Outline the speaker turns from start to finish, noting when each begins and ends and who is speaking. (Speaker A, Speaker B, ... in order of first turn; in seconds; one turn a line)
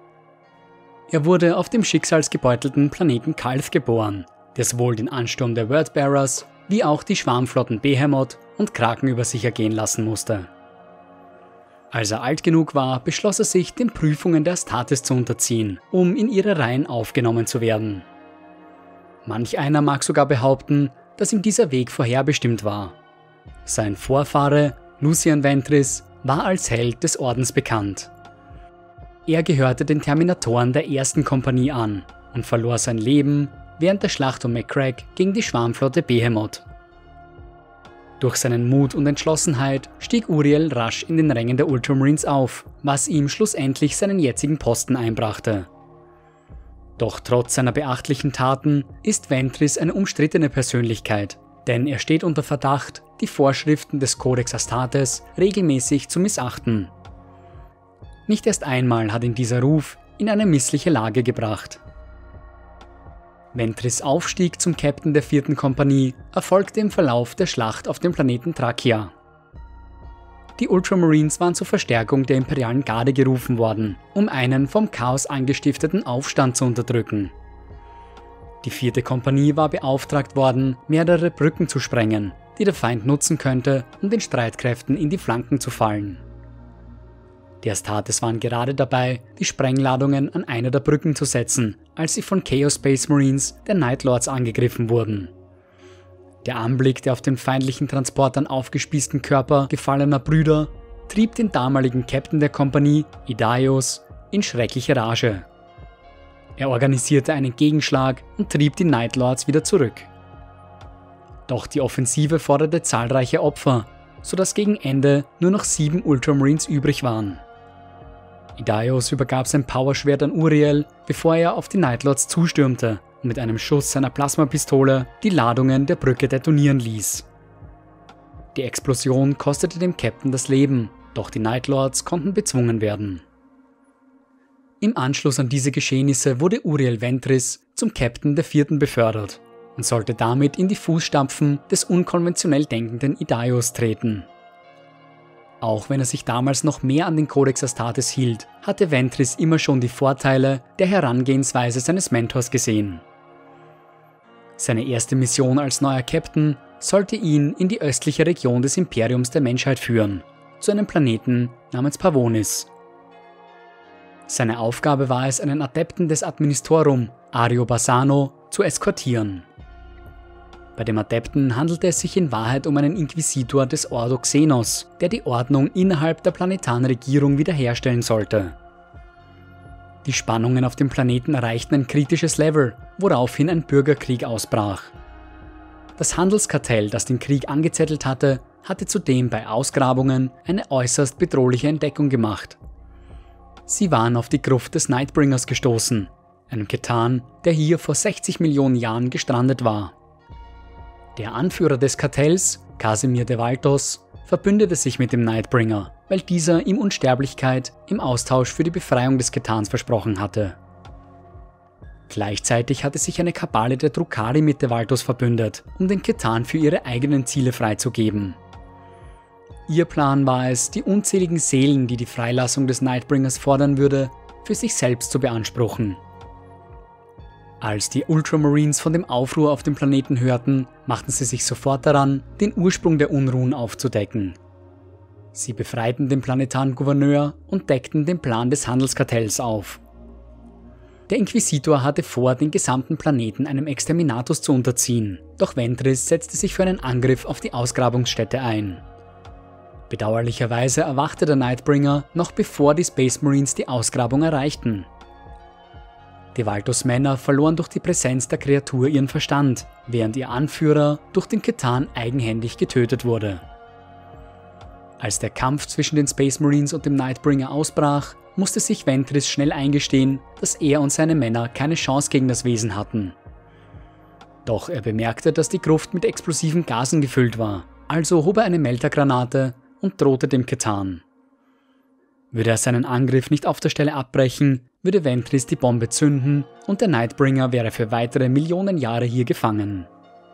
Speaker A: 1.1-10.5
Speaker A: 11.9-18.1
Speaker A: 19.2-22.9
Speaker A: 23.6-28.1
Speaker A: 29.2-36.6
Speaker A: 38.2-45.7
Speaker A: 47.0-56.9
Speaker A: 58.3-61.8
Speaker A: 63.5-69.1
Speaker A: 70.6-77.3
Speaker A: 78.6-86.2
Speaker A: 87.6-95.3
Speaker A: 96.4-105.5
Speaker A: 106.6-110.1
Speaker A: 111.5-117.4
Speaker A: 118.6-127.3
Speaker A: 128.5-133.2
Speaker A: 134.8-144.3
Speaker A: 145.6-153.0
Speaker A: 154.6-162.7
Speaker A: 164.3-169.5
Speaker A: 170.8-178.5
Speaker A: 180.0-184.9
Speaker A: 186.0-192.6
Speaker A: 193.7-199.9
Speaker A: 201.1-210.6
Speaker A: 212.1-218.4
Speaker A: 219.7-226.0
Speaker A: 227.6-234.4
Speaker A: 235.3-239.8
Speaker A: 241.1-248.8
Speaker A: 249.9-254.9
Speaker A: 256.3-263.4
Speaker A: 265.0-273.1
Speaker A: 274.4-281.0
Speaker A: 282.3-289.9